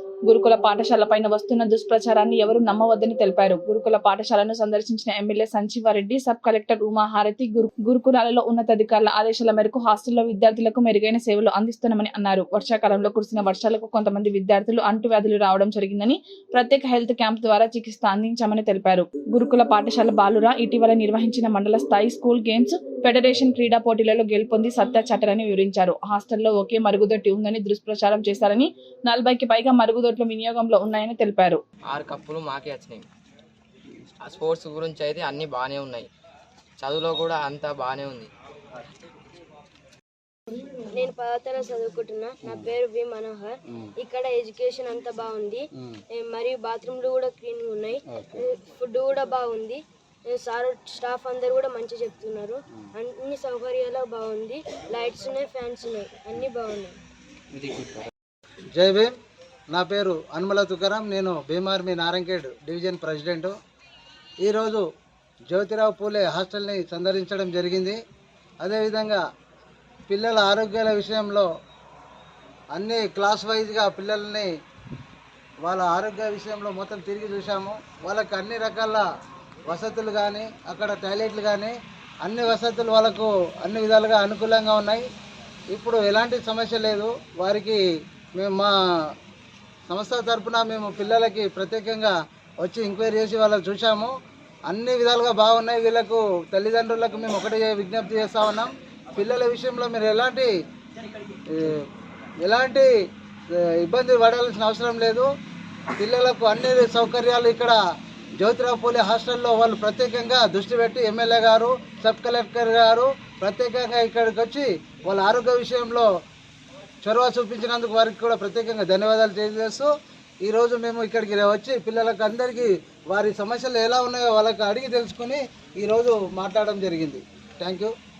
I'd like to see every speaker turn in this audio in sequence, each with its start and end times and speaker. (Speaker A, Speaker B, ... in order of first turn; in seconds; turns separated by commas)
Speaker A: 0.3-31.6, Speaker B: 31.9-33.1, Speaker B: 34.2-36.1, Speaker B: 36.8-38.3, Speaker C: 40.8-45.6, Speaker D: 42.5-42.7, Speaker C: 46.1-57.0, Speaker D: 48.1-48.5, Speaker D: 57.6-57.9, Speaker D: 58.8-59.1, Speaker D: 59.7-63.5, Speaker D: 64.4-64.8, Speaker D: 65.5-68.0, Speaker D: 68.6-69.2, Speaker D: 70.1-71.5, Speaker D: 72.7-74.5, Speaker D: 75.7-79.0, Speaker D: 79.7-85.0, Speaker D: 85.7-87.8, Speaker D: 88.4-88.7, Speaker D: 89.9-94.1, Speaker D: 94.7-100.5, Speaker D: 101.5-101.9, Speaker D: 102.4-102.9, Speaker D: 103.5-105.3, Speaker D: 106.0-107.8, Speaker D: 108.4-116.1, Speaker D: 117.0-119.9, Speaker D: 120.4-127.9